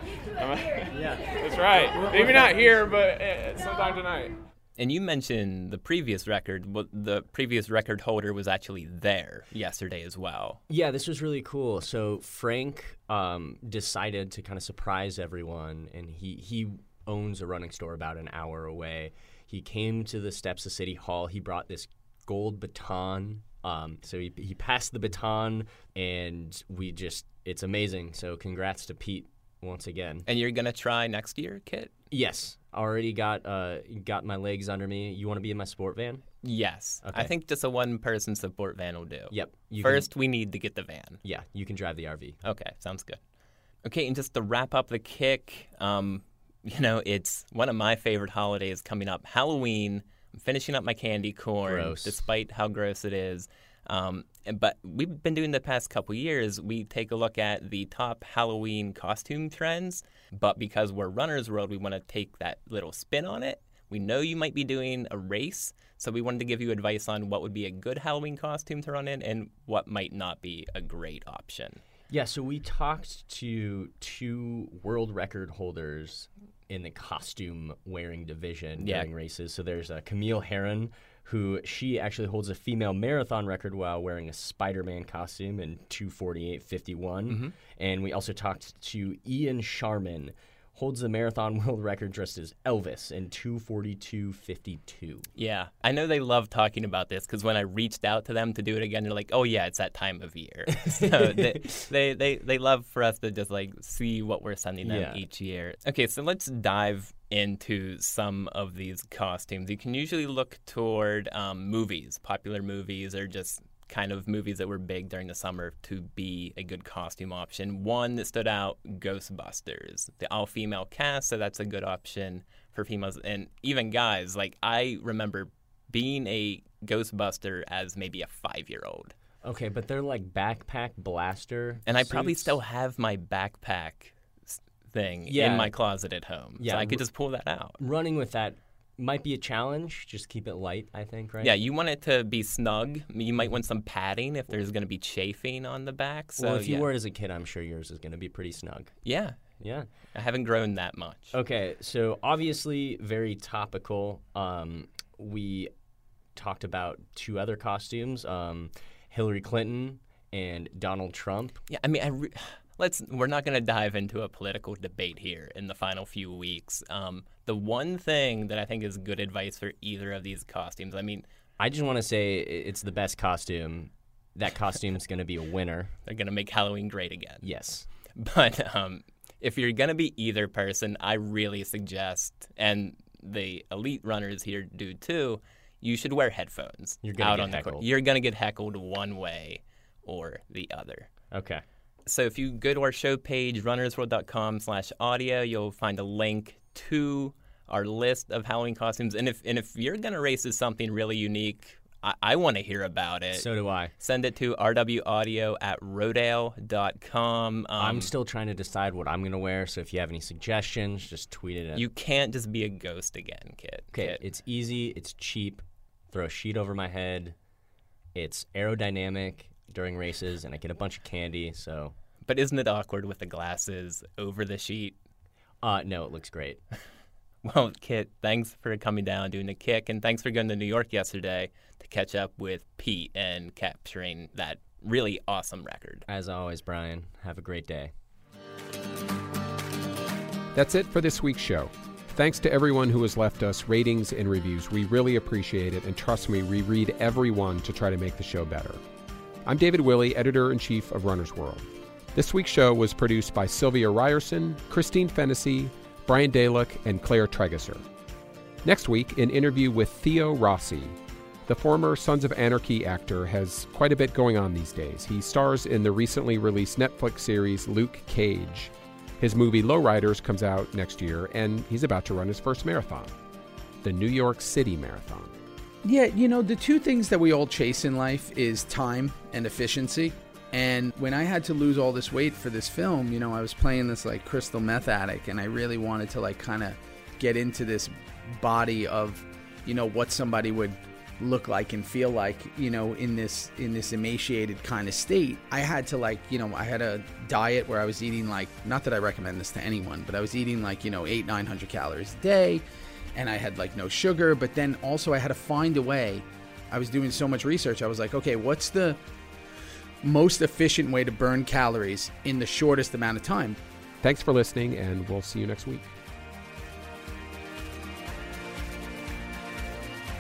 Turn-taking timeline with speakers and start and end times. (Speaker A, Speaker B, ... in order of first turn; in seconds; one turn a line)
Speaker A: 0.4-4.4
Speaker B: 2.0-2.4
Speaker C: 4.8-10.6
Speaker B: 10.7-30.3
Speaker C: 30.3-32.0
Speaker B: 32.1-36.2
Speaker C: 36.4-41.2
Speaker B: 37.0-37.3
Speaker B: 39.3-40.1
Speaker B: 41.2-42.4
Speaker C: 42.4-43.2
Speaker C: 43.8-71.8
Speaker B: 51.6-52.2
Speaker B: 72.1-95.3
Speaker C: 78.8-79.1
Speaker C: 87.3-87.5
Speaker C: 95.4-129.1
Speaker B: 100.7-101.8
Speaker B: 104.8-105.2
Speaker B: 129.4-132.6
Speaker C: 131.9-137.8
Speaker B: 135.3-135.7
Speaker B: 136.6-137.0
Speaker B: 137.8-141.6
Speaker C: 141.4-146.9
Speaker B: 146.4-148.9
Speaker C: 149.0-149.5
Speaker B: 149.6-149.9
Speaker C: 150.1-151.3
Speaker B: 151.3-155.7
Speaker B: 156.4-161.6
Speaker C: 161.7-171.3
Speaker B: 171.6-175.9
Speaker C: 176.1-177.5
Speaker B: 177.4-177.9
Speaker C: 178.2-191.1
Speaker B: 187.0-187.9
Speaker B: 191.3-191.6
Speaker C: 192.1-208.1
Speaker B: 203.3-203.9
Speaker B: 207.8-211.8
Speaker C: 211.8-214.2
Speaker B: 213.9-217.3
Speaker B: 218.2-221.9
Speaker C: 222.2-225.0
Speaker B: 225.6-226.6
Speaker C: 227.4-236.0
Speaker B: 236.1-237.9
Speaker D: 240.5-248.8
Speaker D: 249.4-257.8
Speaker D: 258.6-273.1
Speaker D: 273.8-275.4
Speaker E: 275.8-302.6
Speaker E: 303.1-309.0
Speaker E: 310.0-313.6
Speaker D: 314.0-315.9